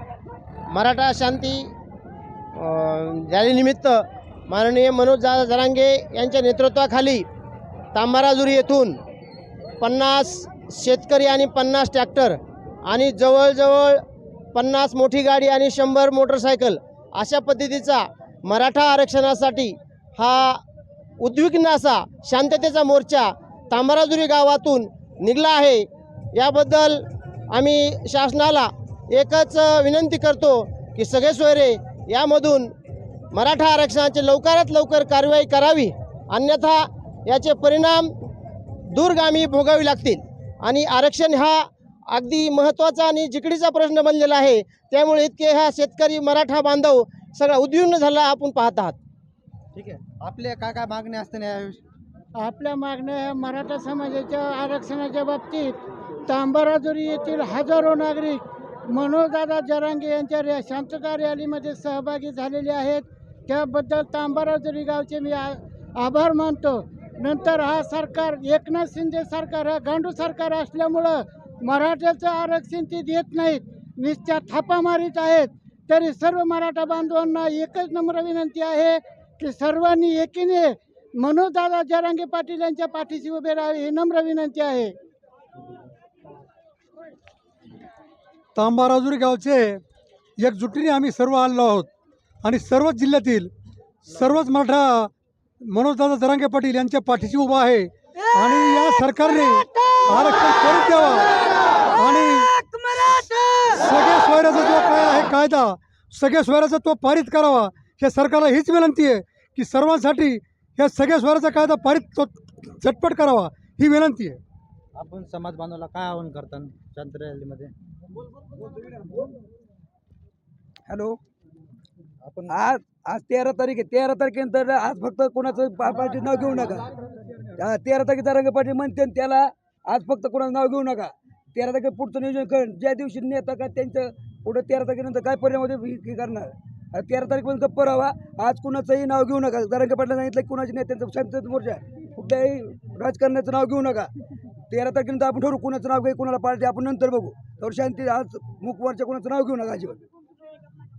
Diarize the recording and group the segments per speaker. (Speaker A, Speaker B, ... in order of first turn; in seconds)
Speaker A: 0.7-1.7, 2.6-7.2, 7.9-9.0, 9.8-14.0, 14.6-20.6, 21.2-32.7, 33.3-38.1, 38.9-49.0
Speaker B: 49.8-51.8, 115.0-117.7, 122.2-122.6
Speaker C: 52.4-55.8, 56.3-84.9
Speaker D: 88.6-89.8, 90.4-91.9, 92.4-93.5, 94.1-95.1, 95.6-102.5, 103.1-114.4
Speaker E: 120.9-121.2, 122.5-126.9, 127.6-144.1, 144.7-150.0